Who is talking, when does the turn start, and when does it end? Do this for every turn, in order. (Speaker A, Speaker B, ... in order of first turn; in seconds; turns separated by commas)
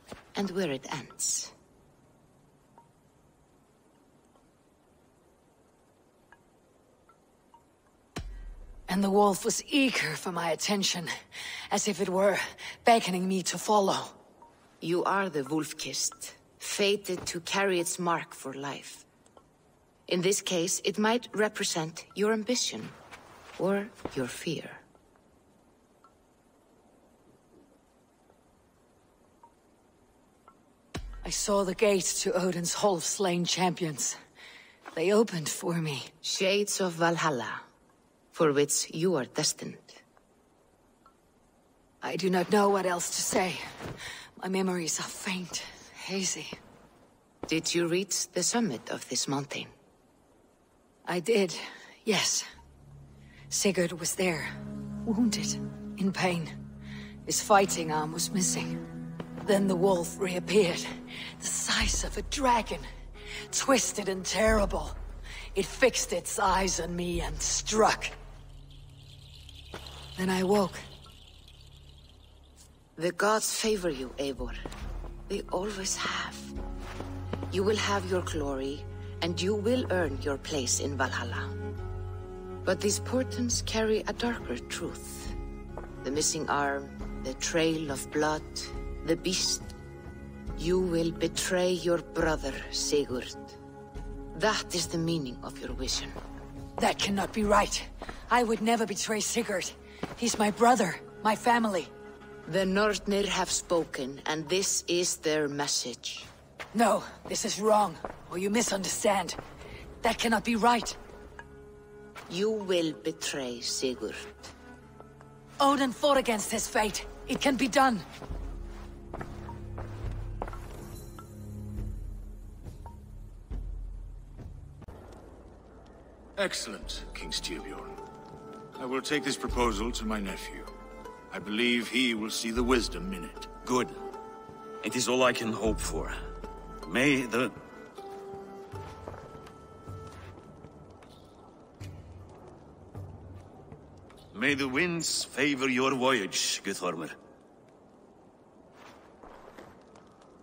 Speaker A: 0.3-1.5, Speaker B: 8.9-11.1, Speaker B: 11.7-14.2, Speaker A: 14.8-19.1, Speaker A: 20.1-22.9, Speaker A: 23.6-24.8, Speaker B: 31.2-34.2, Speaker B: 35.0-36.1, Speaker A: 36.2-37.6, Speaker A: 38.3-40.0, Speaker B: 42.0-43.6, Speaker B: 44.4-46.5, Speaker A: 47.5-49.7, Speaker B: 51.1-52.4, Speaker B: 53.5-54.5, Speaker B: 55.0-56.5, Speaker B: 57.3-58.8, Speaker B: 59.4-60.9, Speaker B: 61.4-62.9, Speaker B: 63.5-65.0, Speaker B: 65.5-68.1, Speaker B: 70.2-70.8, Speaker A: 73.0-74.6, Speaker A: 75.3-76.5, Speaker A: 77.5-81.5, Speaker A: 82.6-85.3, Speaker A: 86.0-89.7, Speaker A: 90.6-93.6, Speaker A: 94.3-96.2, Speaker B: 96.8-101.9, Speaker A: 102.5-106.3, Speaker B: 106.7-109.4, Speaker B: 110.0-111.0, Speaker A: 112.3-114.5, Speaker B: 115.6-118.0, Speaker C: 126.4-128.0, Speaker C: 128.8-130.7, Speaker C: 131.3-133.5, Speaker D: 133.7-133.9, Speaker D: 134.8-136.2, Speaker D: 136.8-137.5, Speaker D: 144.3-147.2